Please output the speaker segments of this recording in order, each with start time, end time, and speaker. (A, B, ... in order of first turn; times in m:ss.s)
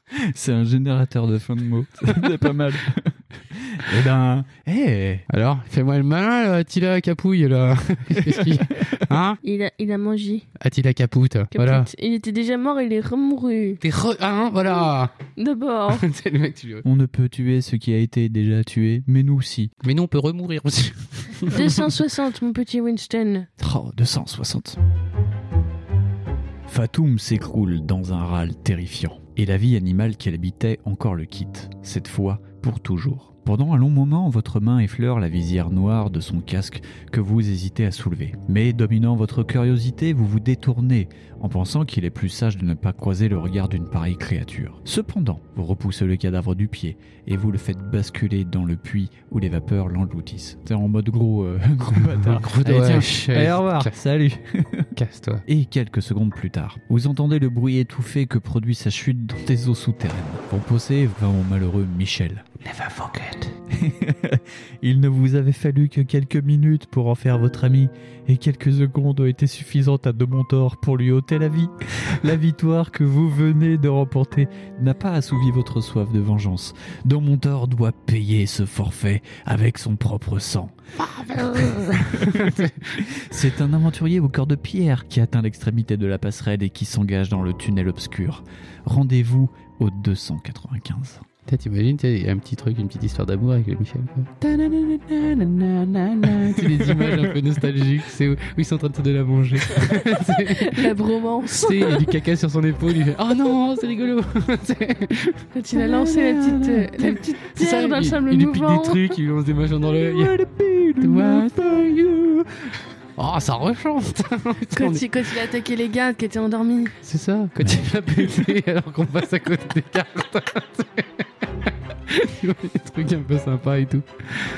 0:00.1-0:05.2 A
0:05.3-0:09.4 B
0:08.2-0:09.0 A
0:09.4-0:10.4 C
0:10.6-0:11.9 B
0:11.5-0:13.8 C
0:13.8-0:15.1 B
0:15.4-0:16.0 C
0:15.9-0:16.8 B
0:16.8-0:19.7 A
0:19.8-0:21.9 B
0:21.5-0:23.5 C
0:23.6-0:24.8 A
0:26.7-0:54.9 A
0:51.9-0:53.9 B
0:55.0-0:55.4 B
0:55.5-1:02.4 A
1:02.6-1:03.5 B
1:03.7-1:20.7 A
1:21.0-1:23.0 B
1:21.6-1:31.2 A
1:31.4-1:50.4 B
1:36.9-1:37.2 A
1:40.3-1:42.2 C
1:45.5-1:49.1 C
1:49.8-1:52.7 A
1:51.0-1:52.1 B
1:53.2-1:55.1 B
1:54.7-1:57.0 C
1:57.0-2:04.4 B
1:57.6-1:58.3 A